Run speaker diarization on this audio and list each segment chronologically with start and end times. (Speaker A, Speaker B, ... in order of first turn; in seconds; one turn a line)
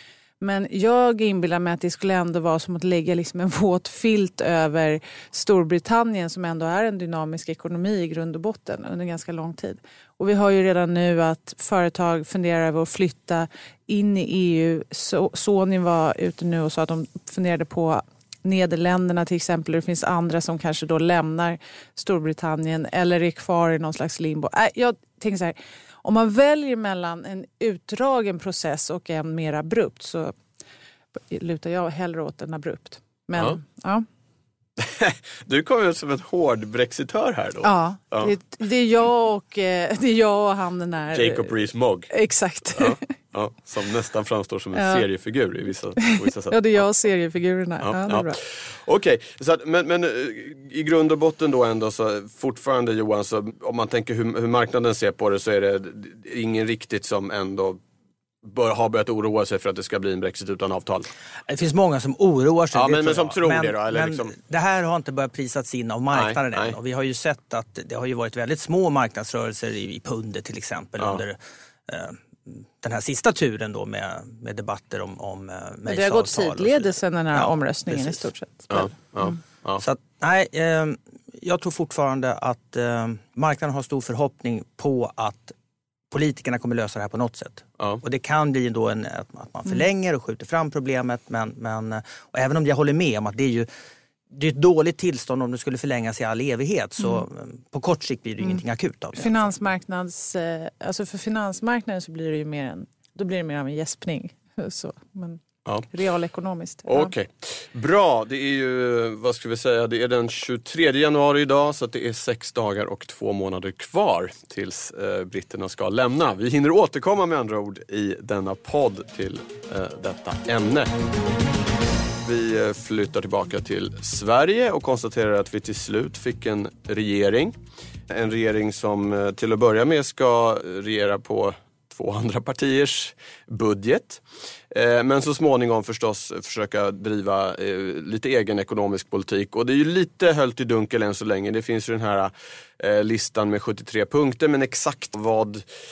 Speaker A: 0.4-30.3
Speaker A: 31.3-34.0
Speaker B: 34.8-38.3
Speaker A: 37.6-41.5
Speaker B: 41.1-42.1
Speaker A: 42.1-43.0
Speaker B: 42.7-46.9
Speaker A: 44.8-45.0
Speaker A: 46.1-48.4
Speaker B: 47.8-57.8
Speaker B: 58.4-61.1
Speaker C: 61.5-78.3
Speaker B: 62.7-64.3
Speaker B: 66.1-66.7
Speaker A: 75.8-79.4
Speaker B: 78.7-79.8
Speaker C: 79.8-85.5
Speaker C: 86.1-93.7
Speaker C: 94.3-99.5
Speaker A: 99.2-107.1
Speaker B: 106.9-120.9
Speaker B: 122.2-127.6
Speaker B: 128.1-145.6